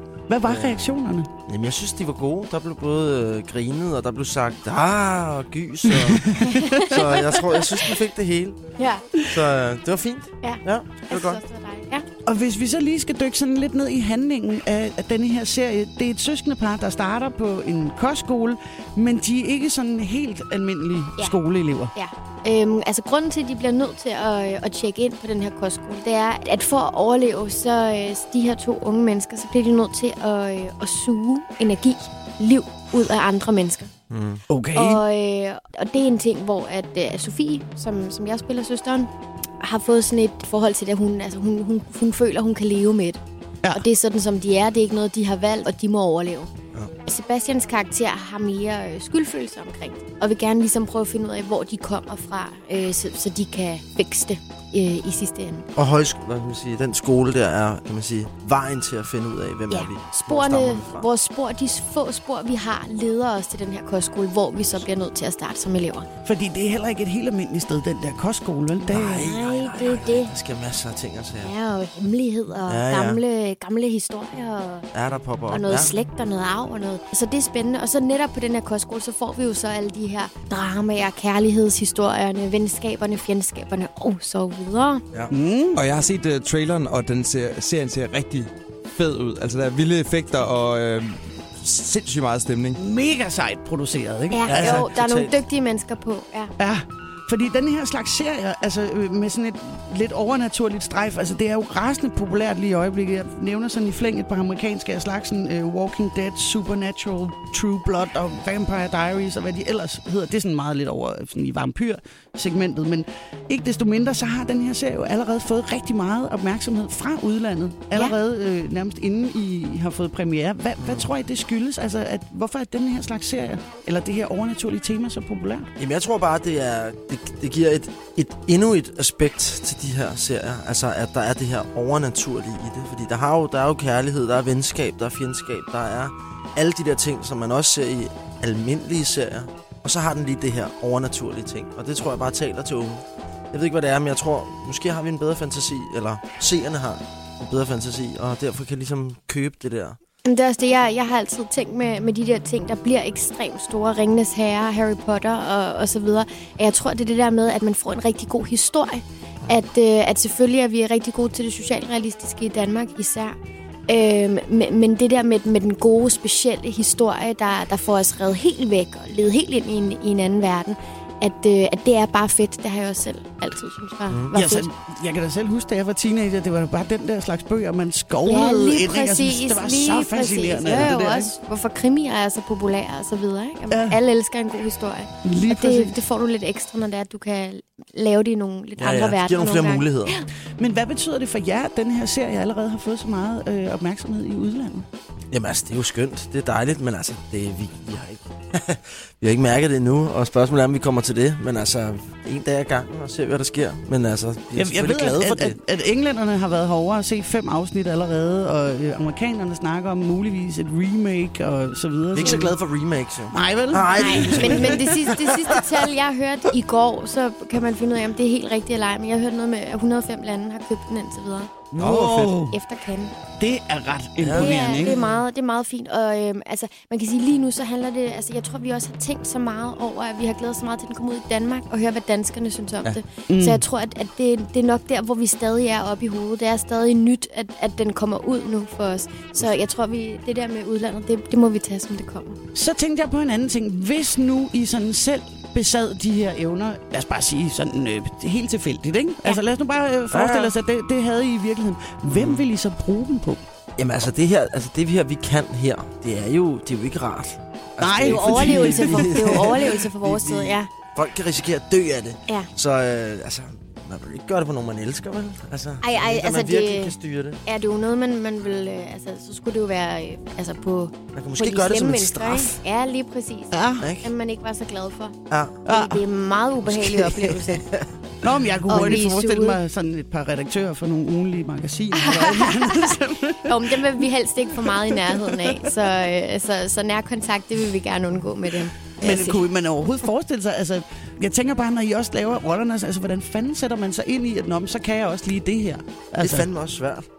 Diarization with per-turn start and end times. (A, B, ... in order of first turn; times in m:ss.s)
0:00.3-0:01.3 A
0:00.4-0:00.9 B
0:01.5-0:08.6 B
0:05.9-0:06.9 A
0:06.4-0:07.9 C
0:08.8-0:09.4 C
0:09.2-0:11.4 B
0:10.4-0:12.1 C
0:12.3-0:21.9 A
0:22.0-0:33.9 C
0:34.1-0:34.4 B
0:34.5-0:35.0 A
0:34.7-0:46.5 C
0:47.1-0:55.7 C
0:55.8-1:01.1 B
0:59.7-1:06.1 C
1:06.2-1:09.3 A
1:08.8-1:11.5 B
1:09.2-1:10.3 C
1:11.4-1:14.9 C
1:12.7-1:13.2 B
1:14.9-1:15.9 B
1:15.5-1:25.0 C
1:25.3-1:25.8 A
1:25.8-1:32.8 D
1:32.8-1:34.9 A
1:34.3-1:36.5 C
1:34.5-1:35.4 B
1:36.6-2:05.7 A
2:00.8-2:01.1 B
2:05.8-2:30.0 B
2:30.2-2:43.4 C
2:43.9-2:54.7 C
2:54.3-3:01.3 A
2:58.2-3:10.3 C
3:03.7-3:04.0 A
3:05.2-3:06.0 A
3:08.8-3:10.2 B
3:10.6-3:14.9 A
3:15.3-3:25.6 B
3:24.5-3:32.6 A
3:32.1-3:35.6 B
3:33.3-3:35.3 A
3:33.9-3:41.5 C
3:41.7-3:42.6 A
3:41.8-3:42.4 D
3:42.5-3:43.1 C
3:43.4-3:45.1 A
3:44.2-3:45.2 B
3:44.3-4:02.4 C
3:53.3-3:53.6 A
4:02.5-4:13.4 A
4:10.1-4:10.6 B
4:12.1-4:12.5 B
4:13.8-4:27.4 B
4:17.8-4:19.6 A
4:18.0-4:20.7 C
4:25.8-4:37.7 C
4:31.2-4:32.6 B
4:33.5-4:33.9 A
4:33.8-4:34.1 B
4:35.3-4:35.6 B
4:35.6-4:36.1 A
4:36.7-4:37.1 B
4:36.8-4:37.4 A
4:38.2-4:44.0 A
4:38.7-4:39.6 C
4:38.7-4:39.0 B
4:42.0-4:49.5 C
4:44.6-4:45.8 A
4:49.0-4:56.5 A
4:56.2-4:57.1 B